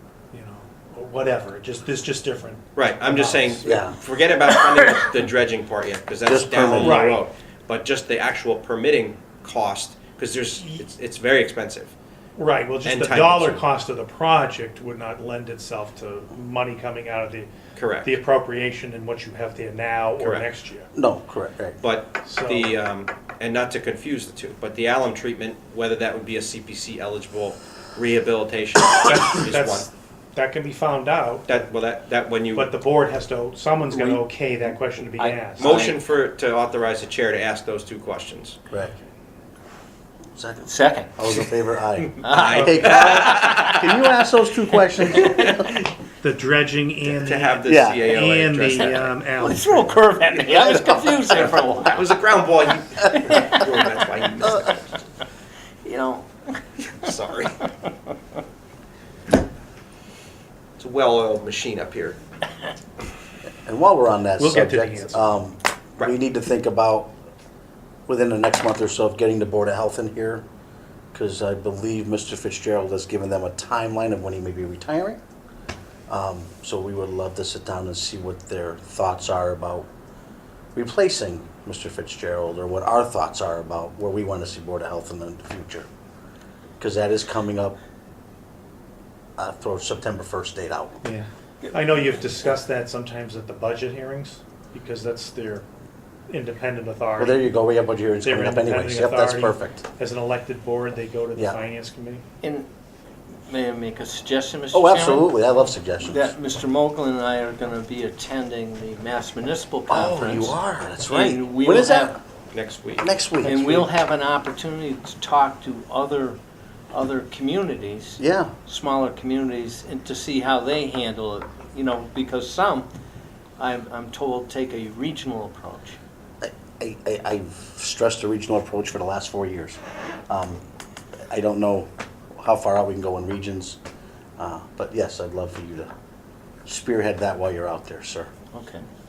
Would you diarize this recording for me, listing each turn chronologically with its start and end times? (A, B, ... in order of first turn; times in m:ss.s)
0:00.3-0:03.8 A
0:02.8-0:11.9 B
0:03.6-0:04.0 C
0:06.3-0:07.0 C
0:06.8-0:07.2 A
0:12.4-0:17.5 A
0:12.8-0:13.6 B
0:17.8-0:18.2 B
0:18.0-0:20.9 A
0:20.2-0:20.5 B
0:21.0-0:21.8 C
0:21.8-0:29.9 B
0:22.2-0:22.8 A
0:29.0-0:31.7 A
0:31.5-0:32.7 B
0:32.5-0:35.8 A
0:33.9-0:34.3 C
0:35.2-0:36.0 D
0:35.6-0:38.6 B
0:40.4-0:45.7 C
0:40.6-0:44.1 D
0:42.3-0:43.9 B
0:42.6-0:42.9 A
0:44.9-0:45.6 D
0:46.2-0:50.1 A
0:47.2-0:49.2 B
0:47.6-0:48.1 C
0:48.8-0:52.4 D
0:51.2-0:55.0 B
0:53.2-0:54.7 D
0:55.8-0:56.6 D
0:56.9-0:57.7 B
1:00.8-1:02.2 B
1:03.6-1:07.1 C
1:04.4-1:05.2 A
1:08.1-1:10.4 C
1:11.1-1:15.2 C
1:16.1-1:19.9 C
1:20.7-1:25.9 C
1:26.8-1:27.8 C
1:29.4-1:31.0 C
1:31.0-1:35.7 A
1:36.3-1:37.5 A
1:37.2-1:39.8 C
1:38.2-1:42.2 A
1:42.4-1:42.7 D
1:43.5-1:45.3 D
1:44.7-1:46.4 C
1:46.0-1:52.2 D
1:49.9-1:52.2 C
1:52.5-1:53.1 B
1:53.0-1:53.9 C
1:53.4-1:56.4 D
1:56.9-2:02.9 D
1:58.2-1:58.5 C
2:03.6-2:06.0 D
2:06.4-2:09.8 C
2:10.3-2:10.6 C
2:11.3-2:13.8 C
2:14.4-2:15.9 C
2:16.7-2:18.3 C
2:18.5-2:18.8 D